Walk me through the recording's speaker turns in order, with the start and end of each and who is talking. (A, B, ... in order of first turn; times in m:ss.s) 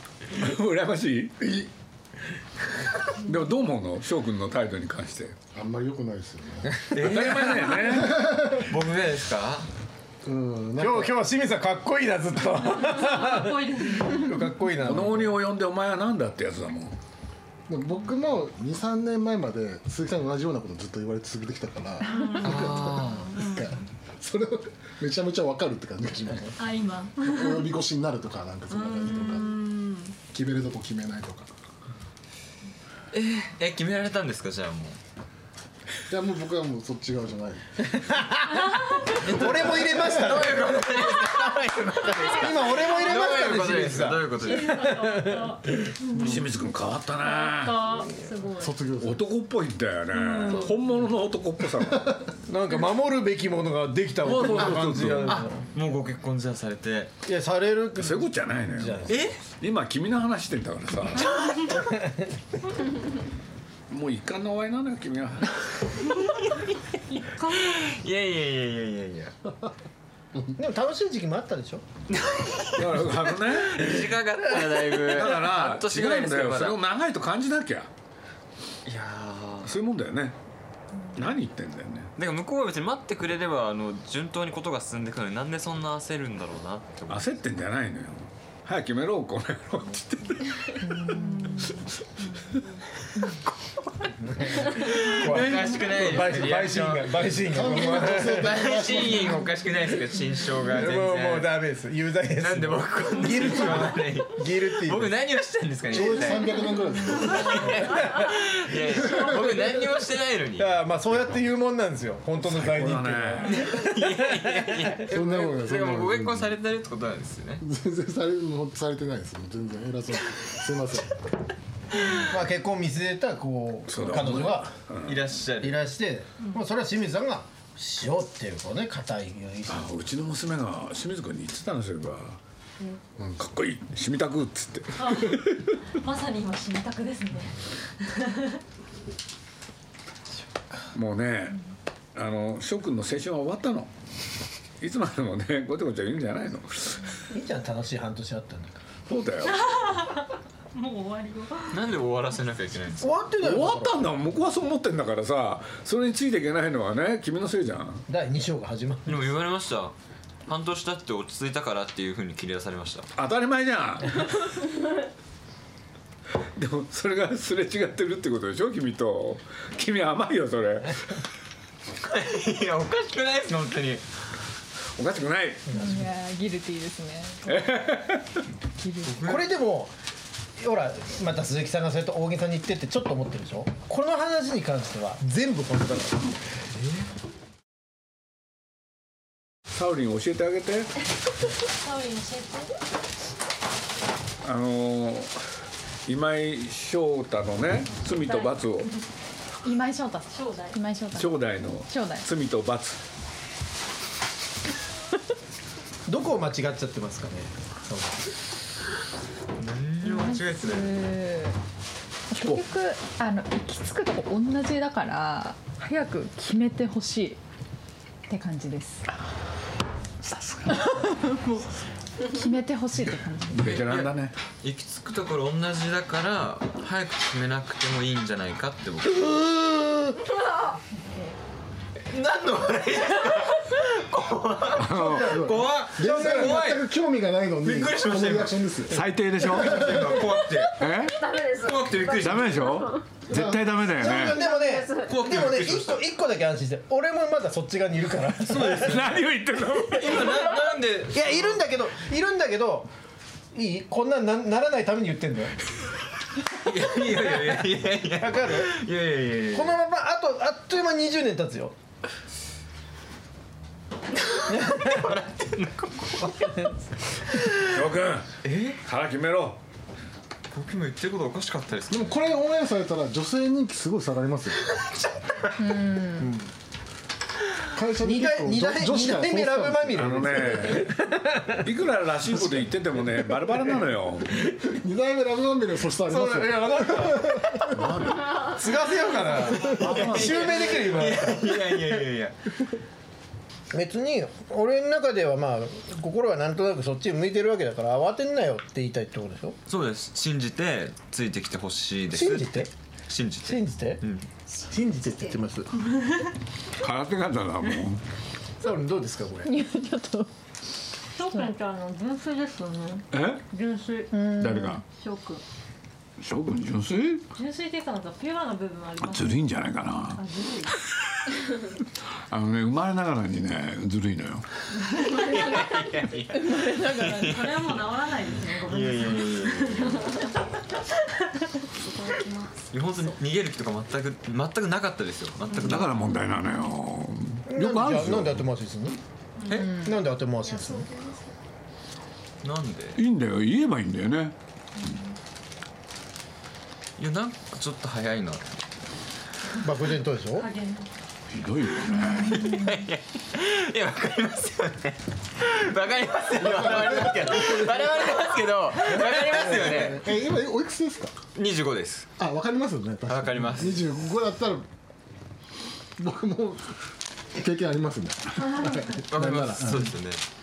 0:00.3-0:01.4 A
0:03.2-0:05.4 A
0:05.5-0:06.8 B
0:06.8-0:09.7 C
0:07.0-0:08.2 A
0:08.0-0:08.6 B
0:10.2-0:11.2 B
0:10.8-0:15.4 D
0:12.6-0:14.5 E
0:14.8-0:16.9 A
0:17.7-0:26.6 B
0:22.0-0:23.8 E
0:22.4-0:23.3 C
0:26.6-0:27.7 E
0:27.2-0:29.6 B
0:28.7-0:30.2 E
0:30.3-0:31.5 B
0:33.1-0:35.0 C
0:36.1-0:37.9 B
0:37.9-0:45.9 D
0:38.7-0:39.0 E
0:39.2-0:44.8 C
0:42.8-0:43.1 E
0:44.4-0:46.4 E
0:46.1-0:47.9 A
0:47.2-0:48.8 E
0:48.6-0:49.3 B
0:49.0-0:52.2 A
0:50.1-0:50.8 E
0:52.4-0:55.7 D
0:54.2-0:55.4 A
0:55.6-0:57.1 C
0:57.2-0:59.2 D
0:58.0-1:01.3 A
0:59.1-0:59.4 C
1:01.7-1:02.4 D
1:03.9-1:05.6 A
1:06.4-1:06.7 C
1:07.1-1:07.8 E
1:07.5-1:09.3 C
1:10.6-1:11.8 D
1:12.1-1:16.8 C
1:12.8-1:14.0 A
1:15.0-1:17.9 A
1:18.8-1:19.7 C
1:19.6-1:20.4 A
1:21.1-1:22.1 A
1:22.2-1:27.3 C
1:27.1-1:30.8 A
1:30.8-1:31.7 F
1:31.2-1:31.7 E
1:34.2-1:38.7 D
1:34.6-1:41.5 C
1:37.4-1:39.4 B
1:40.6-1:45.1 D
1:42.4-1:46.6 C
1:45.9-1:47.8 B
1:47.2-1:50.7 C
1:49.1-1:49.4 B
1:50.6-1:54.9 D
1:52.4-1:53.6 A
1:53.4-1:57.6 C
1:55.1-1:56.5 B
1:57.6-2:01.2 B
2:02.2-2:04.7 D
2:03.9-2:05.2 A
2:05.0-2:05.8 C
2:05.6-2:09.9 D
2:09.7-2:12.4 A
2:13.2-2:15.7 A
2:15.0-2:15.4 E
2:16.0-2:18.6 E
2:20.9-2:21.6 A
2:22.1-2:23.9 A
2:24.8-2:27.1 A
2:27.3-2:28.8 D
2:29.0-2:29.6 A
2:29.4-2:31.8 E
2:31.7-2:33.2 C
2:33.0-2:34.0 D
2:33.4-2:38.0 A
2:38.1-2:39.3 D
2:39.0-2:39.9 C
2:40.5-2:43.1 C
2:43.2-2:44.3 A
2:46.6-2:51.2 A
2:52.0-2:54.0 C
2:55.0-2:55.8 A
2:55.7-2:56.0 D
2:55.7-2:57.6 F
2:57.4-2:58.4 A
2:58.8-2:59.2 F
2:59.0-2:59.5 C
2:59.2-2:59.9 D
3:00.6-3:06.4 D
3:06.7-3:07.1 C
3:09.7-3:10.9 A
3:11.7-3:12.7 E
3:14.4-3:15.3 A
3:16.0-3:18.9 A
3:18.1-3:18.9 E
3:19.6-3:22.3 F
3:20.3-3:20.8 E
3:21.1-3:23.0 A
3:26.1-3:28.3 D
3:29.6-3:31.0 C
3:30.0-3:31.6 F
3:32.3-3:37.4 F
3:32.3-3:32.6 A
3:38.3-3:39.0 F
3:40.2-3:40.8 A
3:40.6-3:41.7 F
3:42.2-3:43.6 F
3:43.5-3:44.3 A
3:43.6-3:49.3 C
3:49.1-3:50.3 D
3:52.1-3:56.9 C
3:54.8-3:55.4 A
3:54.9-3:56.6 D
3:55.2-3:59.1 B
3:57.6-3:58.6 C
3:58.9-4:00.1 A
3:59.4-4:00.9 C
4:00.7-4:01.4 A
4:01.4-4:02.6 C
4:02.1-4:04.5 A
4:03.3-4:03.6 B
4:03.8-4:09.0 D
4:04.9-4:06.0 C
4:08.4-4:09.2 C
4:08.7-4:10.4 A
4:09.9-4:11.6 C
4:11.1-4:12.9 D
4:13.5-4:15.5 D
4:16.5-4:19.8 C
4:17.0-4:18.7 D
4:19.5-4:21.7 D
4:24.3-4:26.7 C
4:24.5-4:25.1 D
4:26.2-4:26.7 D
4:27.6-4:29.6 A
4:28.4-4:28.8 C
4:30.5-4:32.2 C
4:31.9-4:34.6 B
4:34.7-4:35.5 C
4:35.6-4:36.3 F
4:36.2-4:36.5 D
4:37.7-4:40.7 B
4:38.0-4:41.7 D
4:39.9-4:40.9 A
4:41.6-4:44.3 A
4:44.6-4:48.5 B
4:46.0-4:52.0 D
4:49.5-4:52.4 C
4:49.8-4:50.5 A
4:53.7-4:59.6 D
4:59.7-5:04.3 C
5:02.1-5:02.7 D
5:03.4-5:04.0 D
5:04.6-5:05.7 D
5:05.9-5:06.3 E
5:06.8-5:08.0 A
5:08.6-5:09.5 D
5:09.4-5:10.3 F
5:11.1-5:14.2 E
5:13.1-5:13.4 A
5:14.1-5:14.8 F
5:14.4-5:14.8 A
5:14.9-5:15.4 E
5:16.2-5:17.2 A
5:17.3-5:19.5 E
5:19.0-5:20.7 A
5:20.1-5:20.7 E
5:22.3-5:24.4 A
5:25.0-5:27.7 C
5:26.3-5:27.4 F
5:27.1-5:30.2 E
5:28.7-5:30.2 C
5:31.9-5:32.5 E
5:32.7-5:36.0 C
5:35.6-5:38.4 A
5:37.5-5:39.0 D
5:39.4-5:39.7 E
5:39.6-5:40.0 F
5:39.7-5:41.0 D
5:42.4-5:43.0 C
5:43.0-5:44.3 A
5:47.0-5:48.5 C
5:49.6-5:50.5 D
5:50.3-5:50.9 E
5:51.3-5:52.4 A
5:52.1-5:52.7 F
5:52.2-6:00.0 C
5:56.4-5:57.8 B
5:59.2-6:01.1 B
6:01.3-6:02.1 C
6:02.2-6:04.6 B
6:03.1-6:04.0 C
6:06.0-6:06.7 B
6:07.3-6:09.9 B
6:09.1-6:10.2 C